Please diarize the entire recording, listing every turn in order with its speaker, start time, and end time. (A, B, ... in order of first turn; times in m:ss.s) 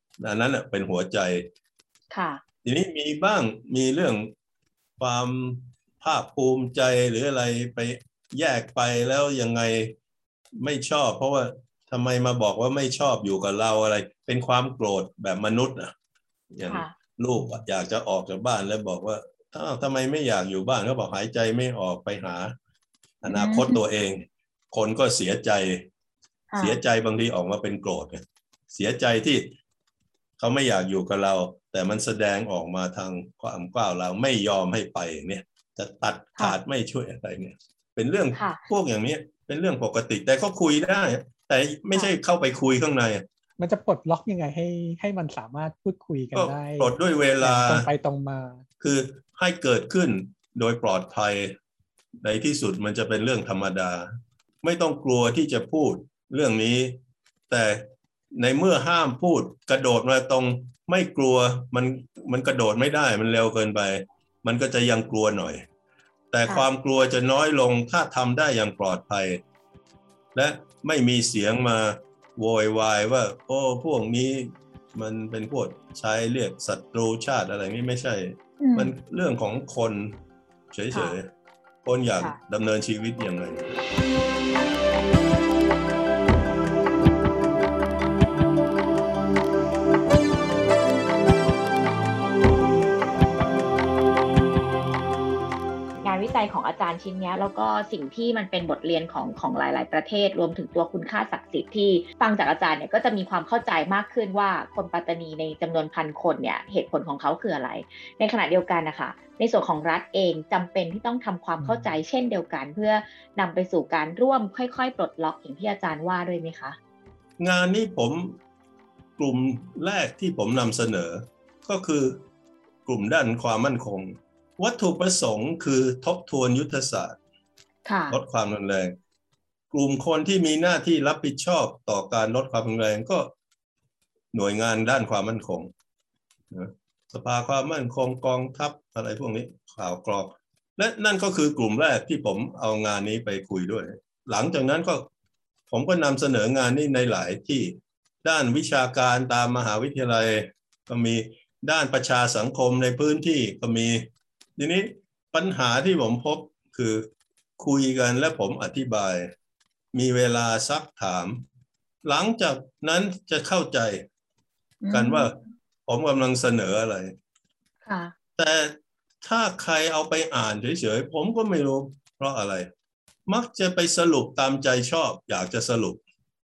0:00.2-0:01.5 A
0:02.1-0:02.4 B
0:02.6-0:04.3 A
0:05.0-0:09.9 A
0:10.6-0:15.9 A
0:16.5-0:22.5 A
0:16.6-0:16.9 B
0:23.2-0:25.9 A
0:23.3-0:23.8 B
0:26.5-0:26.8 B
0:26.6-0:29.5 A
0:30.4-0:43.2 A
0:38.4-0:38.6 B
0:43.6-0:48.6 C
0:46.3-0:47.9 A
0:48.8-0:51.6 A
0:52.2-0:54.1 A
0:54.6-1:05.6 A
1:06.3-1:09.4 A
1:10.3-1:20.2 A
1:18.6-1:18.9 B
1:20.7-1:21.3 A
1:21.8-1:23.7 A
1:36.0-1:56.8 B
1:51.6-1:52.0 C
1:57.4-1:58.4 A
1:59.2-2:02.2 A
2:02.8-2:07.2 A
2:07.8-2:08.2 B
2:08.1-2:08.9 A
2:09.7-2:13.3 A
2:14.3-2:15.7 A
2:16.5-2:25.1 A
2:25.7-2:39.3 A
2:39.9-2:41.4 A
2:42.0-2:44.0 A
2:44.8-2:45.3 B
2:44.9-2:45.4 A
2:45.9-2:47.1 A
2:47.8-2:48.1 B
2:48.4-2:52.7 A
2:53.3-2:56.0 A